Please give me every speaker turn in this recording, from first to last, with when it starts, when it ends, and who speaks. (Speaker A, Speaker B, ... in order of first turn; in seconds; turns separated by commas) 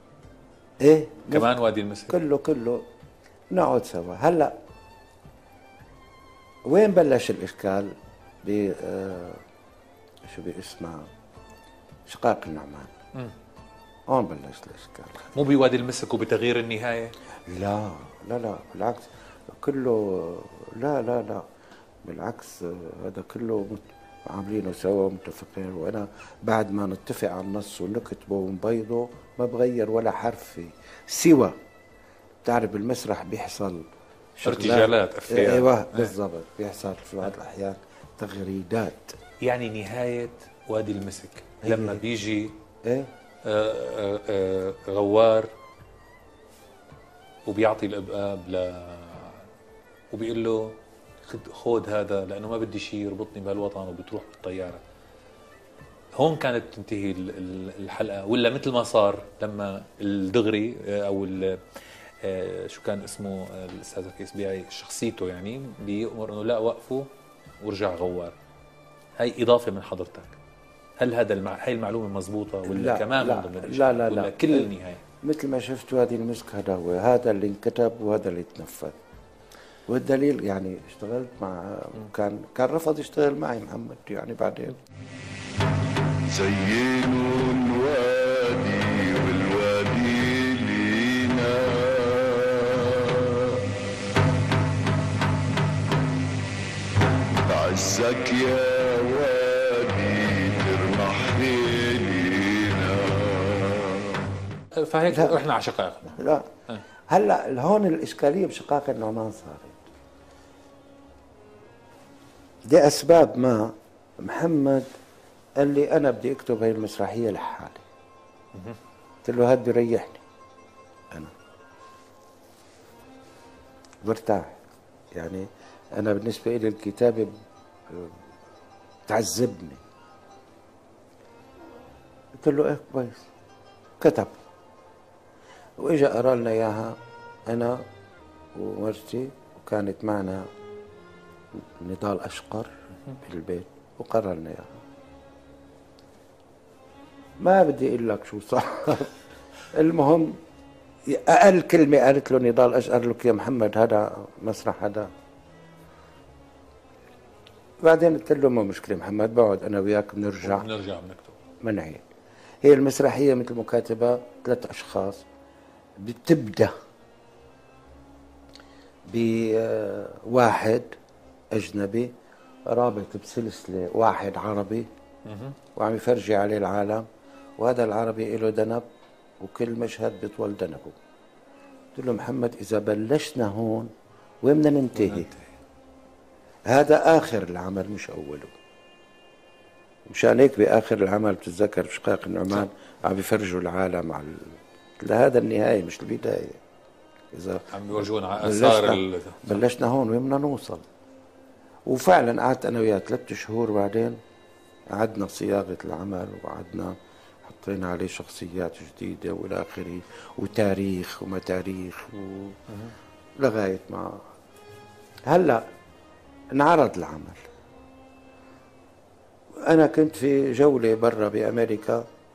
Speaker A: 0.8-1.6, Speaker B: 1.3-2.2, Speaker A: 2.1-2.9, Speaker A: 3.5-4.5, Speaker A: 6.7-9.4, Speaker A: 10.2-11.1, Speaker A: 12.1-12.9, Speaker A: 14.1-15.2, Speaker B: 15.3-17.1, Speaker A: 17.5-21.4, Speaker A: 22.0-31.6, Speaker A: 32.4-39.2, Speaker B: 34.4-36.1, Speaker B: 39.4-42.5, Speaker A: 41.6-42.0, Speaker A: 42.8-43.1, Speaker B: 43.4-45.5, Speaker B: 47.5-49.4, Speaker B: 50.1-54.8, Speaker B: 56.2-61.6, Speaker B: 62.2-67.1, Speaker B: 67.6-68.3, Speaker B: 69.2-70.4, Speaker B: 71.0-75.0, Speaker A: 72.7-79.0, Speaker A: 79.9-84.8, Speaker C: 86.3-93.6, Speaker C: 97.5-104.3, Speaker B: 104.8-106.8, Speaker A: 105.1-105.4, Speaker A: 106.1-106.5, Speaker A: 107.1-109.8, Speaker A: 112.7-114.9, Speaker A: 115.6-117.8, Speaker A: 119.2-120.2, Speaker A: 124.0-124.6, Speaker A: 125.1-127.3, Speaker A: 127.9-128.2, Speaker A: 129.1-129.8, Speaker A: 132.4-133.3, Speaker A: 134.0-134.3, Speaker A: 135.8-137.8, Speaker A: 138.5-140.5, Speaker A: 141.5-144.8, Speaker A: 147.4-149.1, Speaker A: 149.7-150.4, Speaker A: 151.1-155.1, Speaker A: 157.8-160.7, Speaker B: 160.4-161.4, Speaker A: 161.6-162.0, Speaker A: 162.6-165.2, Speaker A: 166.0-166.7, Speaker A: 169.1-170.9, Speaker A: 171.5-172.1, Speaker A: 172.7-174.9, Speaker B: 175.2-175.6, Speaker A: 175.7-177.1, Speaker A: 177.6-178.8, Speaker A: 179.4-180.9, Speaker A: 181.9-183.9, Speaker A: 184.4-185.3, Speaker B: 184.9-185.6, Speaker A: 186.7-188.5, Speaker A: 190.1-196.6, Speaker A: 197.3-197.7, Speaker B: 197.7-199.6, Speaker A: 198.4-200.9, Speaker A: 201.8-204.2, Speaker A: 204.9-212.6, Speaker A: 213.4-214.2, Speaker A: 215.3-215.6, Speaker A: 216.5-217.4, Speaker A: 219.6-222.1